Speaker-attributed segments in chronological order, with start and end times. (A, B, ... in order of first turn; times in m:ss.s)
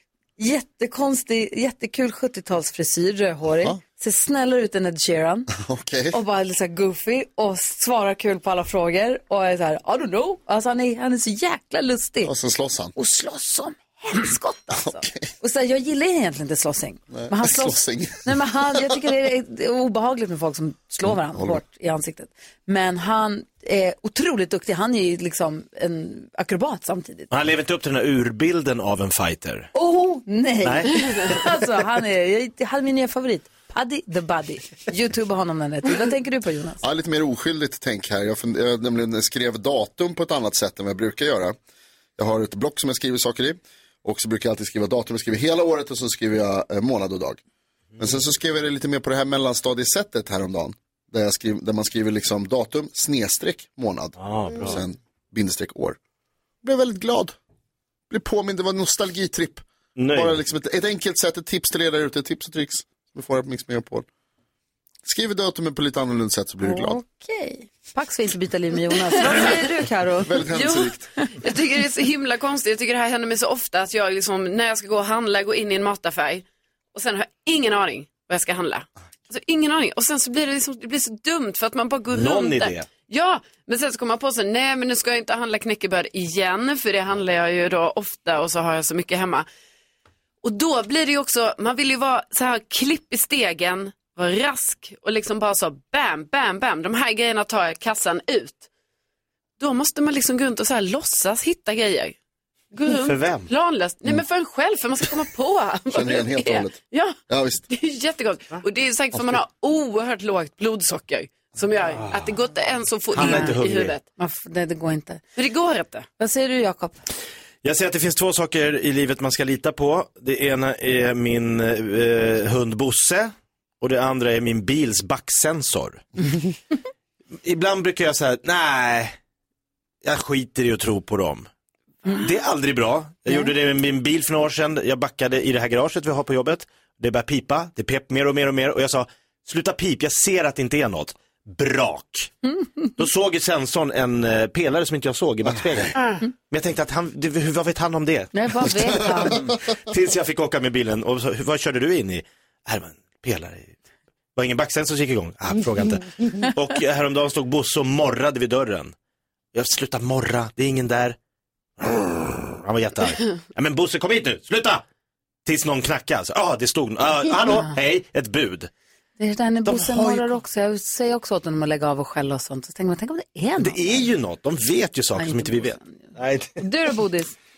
0:00.4-0:05.5 A
0:05.5-0:06.2 B
0:06.1-0:12.3 A
0:12.2-0:12.9 B
0:13.0-0:27.3 A
0:14.7-0:15.3 B
0:17.1-0:18.9 B
0:21.0-0:21.6 B
0:27.3-0:29.7 C
0:29.7-0:36.8 A
0:30.6-0:31.3 C
0:36.8-0:41.6 B
0:42.2-0:47.4 B
0:48.0-0:56.0 B
0:54.2-0:54.8 C
0:56.6-0:57.4 B
0:58.1-1:04.0 B
1:00.0-1:00.4 C
1:05.0-1:07.0 B
1:06.6-1:10.6 A
1:10.2-1:11.1 B
1:10.6-1:10.9 D
1:11.4-1:29.5 D
1:22.1-1:22.9 C
1:30.4-1:38.7 D
1:39.6-1:42.2 D
1:42.7-1:47.2 D
1:42.9-1:43.5 C
1:45.9-1:46.8 B
1:47.3-1:47.6 B
1:47.7-1:54.0 D
1:52.0-1:52.2 C
1:53.1-1:53.9 C
1:53.2-1:53.6 A
1:54.2-1:55.3 A
1:55.4-1:56.1 D
1:56.2-1:57.0 A
1:57.6-2:06.0 C
2:07.4-2:09.2 C
2:10.0-2:11.5 C
2:12.1-2:22.3 C
2:23.0-2:25.9 C
2:26.5-2:33.8 C
2:28.3-2:29.4 A
2:34.3-2:38.9 C
2:39.5-2:41.2 C
2:41.8-2:44.8 C
2:45.4-2:48.7 C
2:49.2-2:54.1 A
2:49.6-2:50.3 C
2:53.6-2:56.6 C
2:55.2-2:57.3 A